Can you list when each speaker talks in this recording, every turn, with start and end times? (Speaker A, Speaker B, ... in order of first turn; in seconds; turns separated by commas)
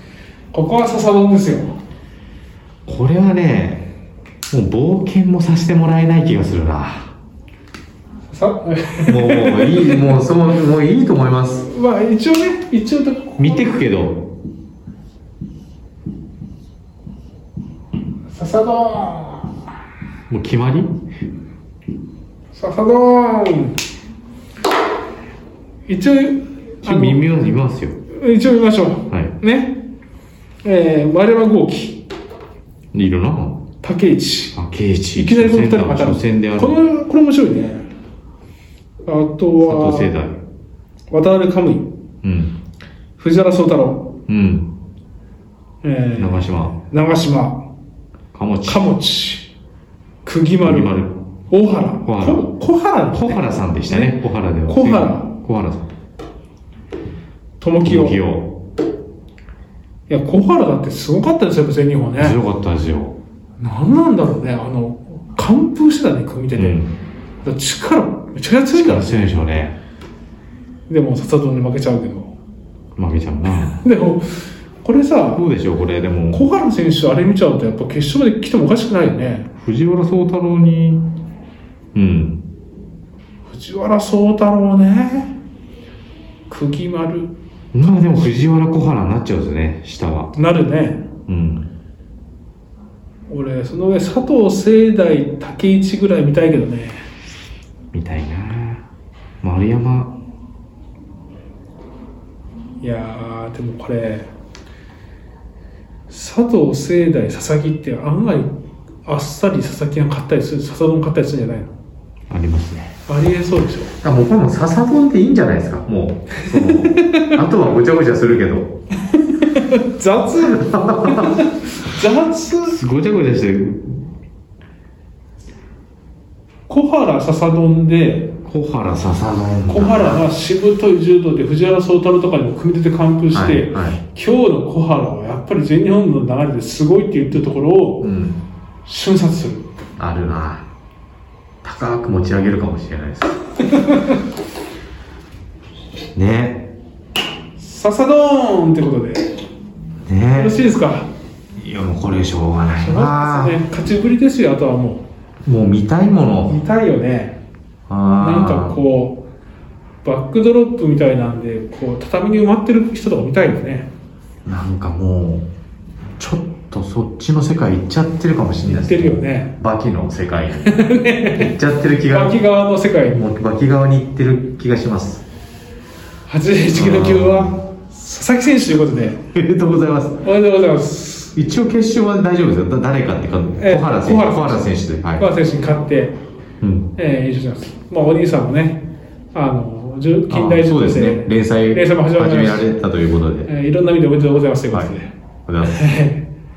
Speaker A: 0.5-1.8, Speaker B: 2.9-3.9, Speaker B: 4.5-7.1, Speaker A: 8.3-10.0, Speaker B: 9.1-11.7, Speaker A: 11.7-13.8, Speaker B: 13.4-14.3, Speaker A: 18.3-19.5, Speaker B: 20.3-21.0, Speaker A: 22.5-23.8, Speaker A: 25.9-27.2, Speaker B: 26.8-28.0, Speaker A: 28.1-29.8, Speaker A: 30.6-32.0, Speaker B: 32.9-33.6, Speaker A: 33.8-34.6, Speaker B: 34.5-36.8, Speaker A: 35.1-37.9, Speaker A: 39.0-40.1, Speaker B: 39.6-40.4, Speaker A: 41.1-41.9, Speaker B: 42.2-42.6, Speaker A: 43.2-44.1, Speaker B: 44.3-44.7, Speaker A: 45.8-47.6, Speaker B: 46.2-46.8, Speaker B: 48.3-48.9, Speaker A: 48.6-49.5, Speaker A: 50.2-50.9, Speaker B: 50.6-51.2, Speaker A: 51.5-55.3, Speaker B: 52.0-52.5, Speaker B: 53.1-55.9, Speaker A: 57.6-58.2, Speaker B: 57.8-58.5, Speaker A: 60.1-62.4, Speaker B: 62.2-63.2, Speaker A: 63.6-66.8, Speaker B: 66.5-66.9, Speaker A: 67.4-69.3, Speaker B: 68.7-69.8, Speaker A: 70.9-72.3, Speaker B: 73.0-73.8, Speaker A: 73.5-75.5, Speaker B: 75.3-76.5, Speaker A: 76.3-79.5, Speaker B: 79.6-81.1, Speaker B: 81.9-82.4, Speaker A: 83.5-85.3, Speaker A: 86.5-87.3, Speaker B: 87.7-90.3, Speaker A: 90.3-91.0, Speaker B: 91.3-91.7, Speaker A: 93.3-97.0, Speaker B: 97.9-98.8, Speaker B: 99.4-100.2, Speaker A: 102.8-104.3, Speaker A: 106.1-111.7, Speaker B: 112.3-113.0, Speaker A: 113.1-113.9, Speaker B: 114.0-118.7, Speaker A: 116.7-117.3, Speaker A: 119.1-122.8, Speaker B: 120.5-121.4, Speaker B: 122.7-124.1, Speaker A: 126.7-128.3, Speaker B: 128.4-130.2, Speaker A: 129.7-138.1, Speaker B: 133.3-134.0, Speaker B: 138.0-138.4, Speaker A: 138.8-139.7, Speaker B: 140.0-140.7, Speaker B: 141.6-143.4, Speaker A: 143.7-144.2, Speaker B: 146.2-146.7, Speaker A: 147.6-149.3, Speaker B: 150.1-150.6, Speaker A: 150.3-151.1, Speaker B: 151.5-153.6, Speaker A: 152.8-155.0, Speaker B: 155.4-156.6, Speaker A: 156.4-157.4, Speaker B: 157.9-158.8, Speaker A: 158.2-159.2, Speaker A: 160.0-163.9, Speaker B: 164.4-165.5, Speaker B: 166.2-170.8, Speaker A: 168.7-169.5, Speaker A: 170.6-171.5, Speaker B: 171.3-172.4, Speaker A: 172.1-173.2, Speaker B: 173.1-175.2, Speaker A: 176.3-179.2, Speaker B: 176.7-177.6, Speaker B: 179.3-180.2, Speaker A: 180.2-181.3, Speaker B: 181.3-185.2, Speaker A: 183.6-186.2, Speaker B: 186.6-186.9, Speaker A: 186.9-192.7, Speaker B: 190.3-193.5, Speaker A: 193.4-196.2, Speaker B: 195.4-195.9